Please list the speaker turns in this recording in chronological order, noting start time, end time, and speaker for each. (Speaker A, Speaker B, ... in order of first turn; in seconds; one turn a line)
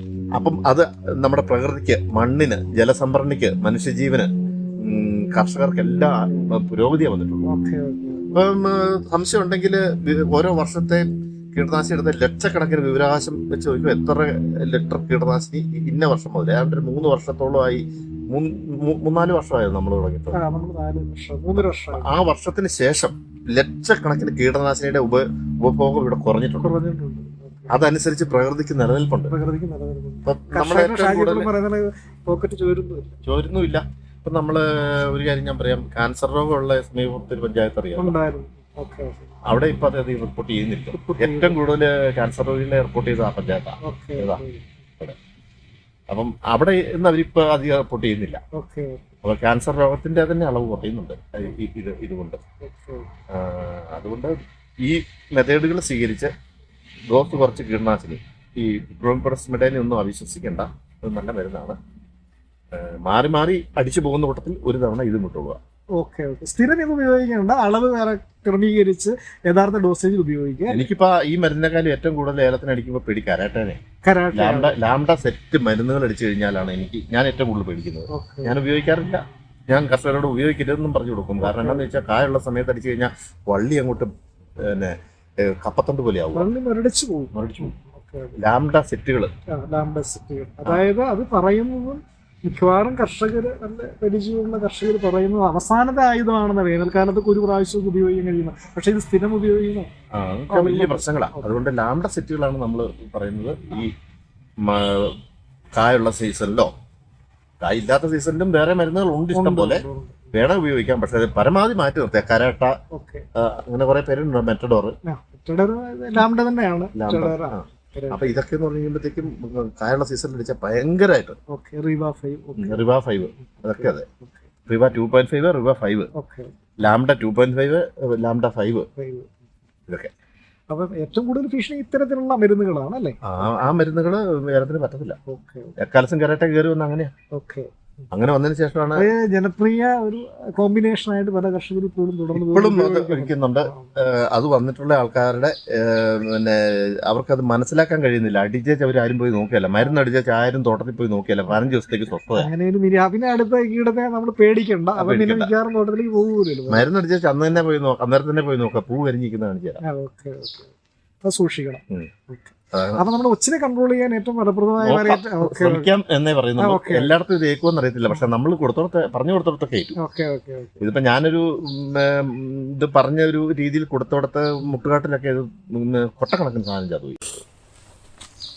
Speaker A: 0.3-7.5
Speaker B: 7.5-8.4
Speaker A: 8.3-20.4
Speaker B: 20.3-22.1
Speaker A: 21.5-26.7
Speaker B: 26.6-27.8
Speaker A: 27.7-29.3
Speaker B: 29.3-33.1
Speaker A: 30.2-31.5
Speaker A: 33.2-38.1
Speaker B: 38.0-39.3
Speaker A: 39.5-44.4
Speaker B: 40.9-41.6
Speaker B: 43.8-44.7
Speaker A: 46.1-48.4
Speaker B: 48.5-49.0
Speaker A: 49.2-52.4
Speaker B: 52.6-53.1
Speaker A: 53.3-56.3
Speaker A: 57.1-61.8
Speaker A: 62.7-65.6
Speaker B: 66.0-70.8
Speaker A: 70.7-73.8
Speaker B: 74.0-74.7
Speaker A: 74.3-86.5
Speaker B: 78.1-78.6
Speaker B: 81.4-81.8
Speaker B: 86.3-88.3
Speaker A: 87.3-87.7
Speaker A: 88.4-89.3
Speaker B: 89.5-99.9
Speaker A: 100.1-103.9
Speaker B: 100.5-101.5
Speaker A: 104.6-105.1
Speaker A: 105.7-106.7
Speaker A: 107.6-112.7
Speaker B: 109.3-110.3
Speaker B: 112.9-113.2
Speaker A: 113.3-114.9
Speaker B: 115.0-118.3
Speaker A: 116.9-121.4
Speaker B: 121.5-122.8
Speaker A: 122.6-124.0
Speaker B: 123.7-124.4
Speaker A: 124.7-126.1
Speaker B: 126.1-126.5
Speaker A: 126.8-128.9
Speaker B: 129.0-129.3
Speaker B: 130.7-133.2
Speaker A: 133.2-135.2
Speaker B: 135.3-135.7
Speaker A: 135.8-137.1
Speaker B: 137.3-137.7
Speaker A: 138.1-139.1
Speaker B: 138.9-143.9
Speaker A: 142.3-152.5
Speaker B: 152.3-156.8
Speaker A: 155.0-155.5
Speaker A: 156.7-159.8
Speaker B: 159.8-160.7
Speaker B: 161.2-165.9
Speaker A: 162.7-163.0
Speaker A: 164.8-169.9
Speaker B: 166.6-167.1
Speaker B: 170.0-170.8
Speaker A: 170.8-177.2